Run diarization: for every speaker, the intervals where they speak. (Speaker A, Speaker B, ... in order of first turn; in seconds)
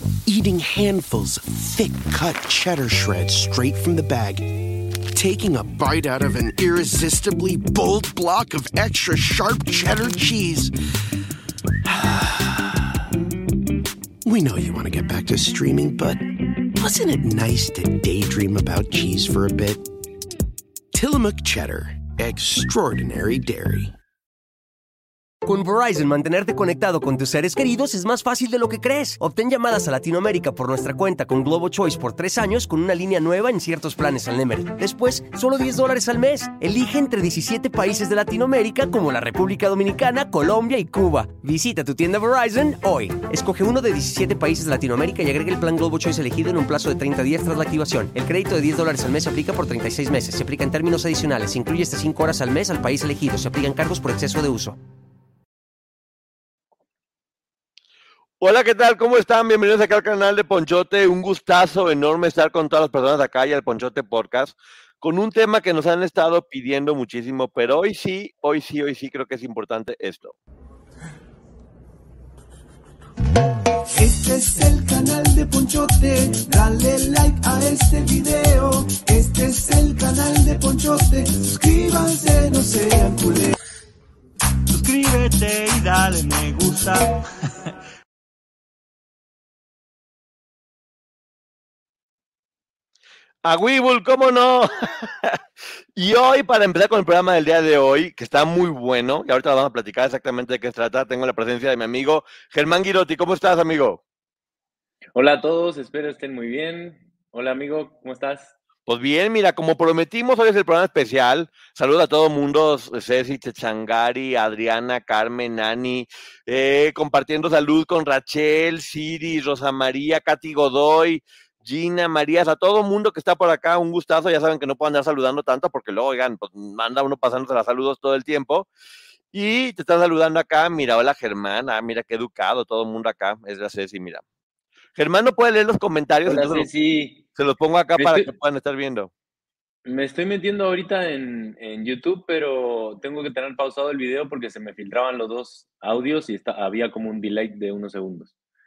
Speaker A: 0.3-4.5, 5.1-10.7, 11.8-12.8, 14.2-19.8, 20.9-23.9
Speaker B: 25.4-54.8
Speaker C: 58.4-70.3, 93.4-95.4, 96.0-104.0, 108.9-128.7, 129.3-134.2, 135.0-136.7, 137.4-139.1
Speaker D: 73.9-83.5
Speaker E: 84.7-87.1
Speaker F: 105.2-108.5, 136.2-137.2, 138.0-138.3, 139.9-148.3